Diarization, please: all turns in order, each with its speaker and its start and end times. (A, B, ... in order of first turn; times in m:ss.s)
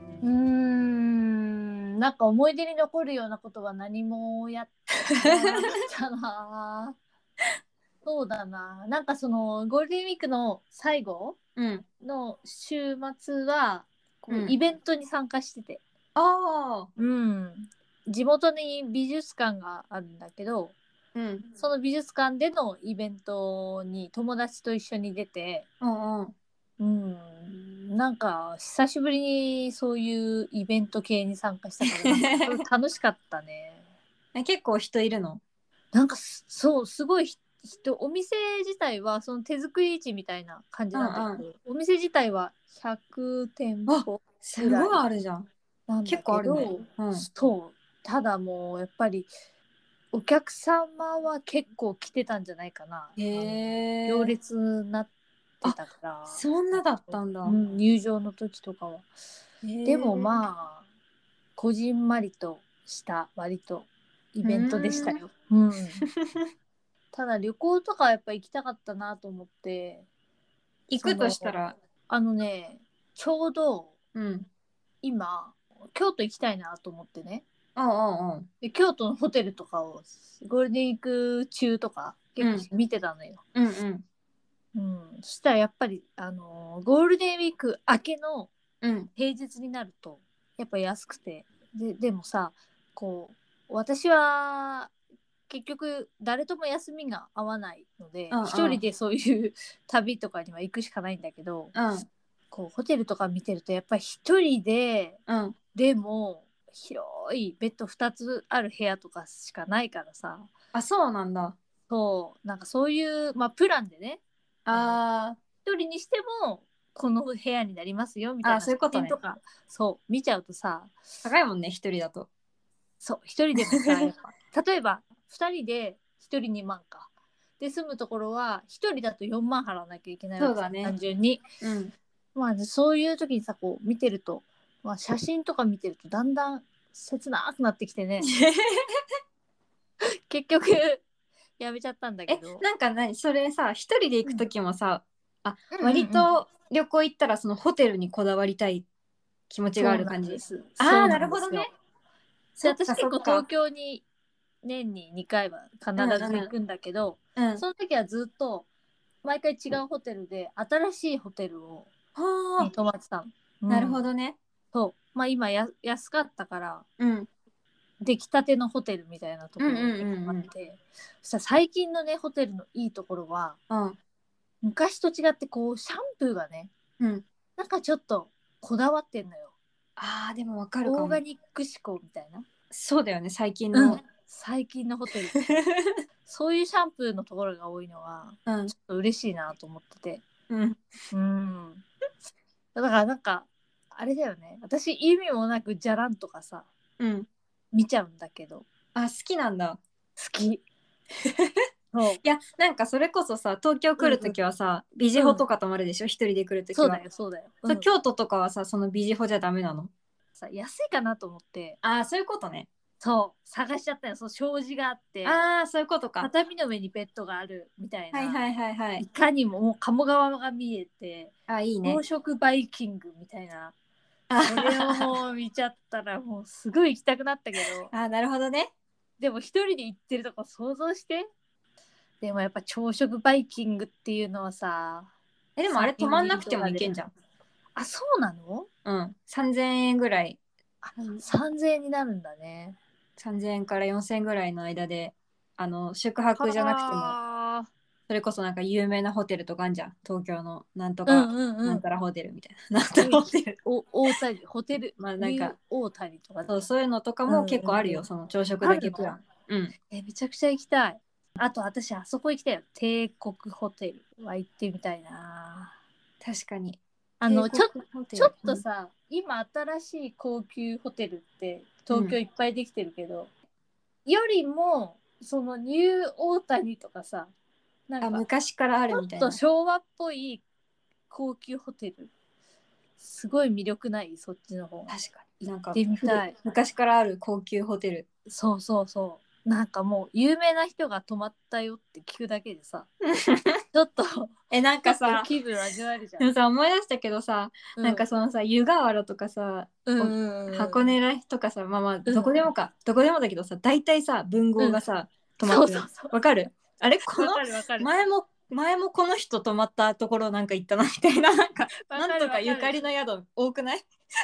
0:00.2-0:07.0 A
0:05.2-0:05.7 B
0:08.0-0:11.4 A
0:11.6-0:11.8 B
0:12.0-0:15.8 A
0:14.3-0:14.6 B
0:16.2-0:16.9 B
0:17.0-0:20.8 A
0:21.1-0:21.5 B
0:21.6-0:25.6 A
0:25.8-0:26.3 B
0:26.8-0:33.8 A
0:31.8-0:32.6 B
0:34.3-0:35.4 B
0:35.9-0:45.0 A
0:40.9-0:41.4 B
0:43.9-0:45.5 B
0:45.9-0:49.3 A
0:46.0-0:47.3 B
0:50.1-0:55.1 A
0:53.2-0:54.3 B
0:55.6-0:59.1 A
0:55.6-0:57.6 B
0:59.6-1:00.4 B
0:59.8-1:00.8 A
1:01.6-1:06.0 A
1:04.4-1:05.2 B
1:07.1-1:10.0 A
1:10.9-1:11.8 B
1:11.0-1:11.6 A
1:12.1-1:13.9 A
1:14.1-1:14.5 B
1:15.0-1:17.4 A
1:17.8-1:18.5 B
1:18.6-1:23.4 A
1:22.4-1:22.7 B
1:23.5-1:24.0 B
1:24.7-1:28.5 A
1:28.8-1:29.1 B
1:29.2-1:34.9 A
1:35.5-1:41.7 A
1:38.3-1:38.8 B
1:41.7-1:42.0 B
1:42.5-1:45.2 A
1:45.3-1:45.6 B
1:45.7-1:50.5 A
1:50.7-1:51.6 B
1:51.9-1:55.0 A
1:54.7-1:55.4 B
1:55.6-2:00.9 A
1:58.4-1:59.2 B
2:01.2-2:02.3 B
2:03.0-2:11.4 A
2:10.4-2:10.9 B
2:11.6-2:11.9 B
2:12.3-2:18.3 A
2:18.2-2:18.6 B
2:20.3-2:21.0 A
2:21.6-2:22.6 A
2:22.3-2:28.8 B
2:25.7-2:26.3 A
2:29.5-2:31.7 B
2:29.8-2:31.7 A
2:32.6-2:33.4 B
2:32.6-2:34.0 A
2:34.6-2:38.7 A
2:36.0-2:36.5 B
2:37.4-2:37.6 B
2:39.2-2:41.9 A
2:42.2-2:42.7 B
2:42.6-2:44.0 A
2:43.7-2:44.4 B
2:44.7-2:46.8 A
2:47.0-2:47.3 B
2:48.0-2:53.6 A
2:49.6-2:50.5 B
2:53.7-2:54.0 B
2:54.6-2:56.7 A
2:57.0-2:57.2 B
2:57.6-2:59.5 A
3:00.0-3:01.2 B
3:00.8-3:02.4 A
3:02.7-3:04.0 B
3:03.7-3:05.5 A
3:06.2-3:10.2 A
3:08.4-3:08.7 B
3:10.5-3:10.8 B
3:11.1-3:11.8 A
3:12.7-3:16.7 A
3:17.0-3:17.3 B
3:17.7-3:18.6 A
3:18.9-3:19.8 B
3:20.2-3:20.6 A
3:21.9-3:22.2 A
3:22.2-3:27.0 B
3:24.0-3:24.4 A
3:25.1-3:25.4 A
3:26.7-3:27.9 A
3:27.7-3:29.9 B
3:30.4-3:31.8 A
3:31.8-3:32.7 B
3:33.0-3:35.5 A
3:35.2-3:36.3 B
3:36.2-3:38.4 A
3:38.1-3:39.1 B
3:39.1-3:41.3 A
3:41.5-3:42.0 B
3:41.8-3:43.7 A
3:44.3-3:45.1 B
3:44.4-3:47.9 A
3:47.9-3:48.7 B
3:49.2-3:51.3 A
3:52.2-3:55.1 A
3:55.6-3:57.1 B
3:55.7-3:56.9 A
3:57.7-3:58.7 A
3:58.8-4:00.4 B
4:00.8-4:02.8 A
4:03.2-4:07.2 B
4:06.4-4:07.7 A
4:08.1-4:13.6 B
4:11.1-4:11.8 A
4:13.0-4:16.7 A
4:15.0-4:15.5 B
4:16.5-4:19.8 B
4:17.3-4:18.1 A
4:18.6-4:19.1 A
4:19.9-4:25.7 A
4:26.2-4:28.6 B
4:27.2-4:33.3 A
4:31.9-4:32.2 B
4:34.0-4:37.3 A
4:37.9-4:38.2 A
4:38.0-4:39.4 B
4:38.9-4:40.4 A
4:41.1-4:42.1 A
4:43.0-4:45.0 A
4:44.9-4:48.0 B
4:45.7-4:46.3 A
4:48.3-4:52.9 A
4:53.0-4:53.6 B
4:53.7-4:54.3 A
4:54.5-4:55.3 B
4:54.8-4:56.2 A
4:56.2-5:13.9 B
4:57.8-4:58.0 A
4:59.8-5:00.9 A
5:02.0-5:02.4 A
5:05.4-5:06.1 A
5:07.2-5:07.9 A
5:11.9-5:12.9 A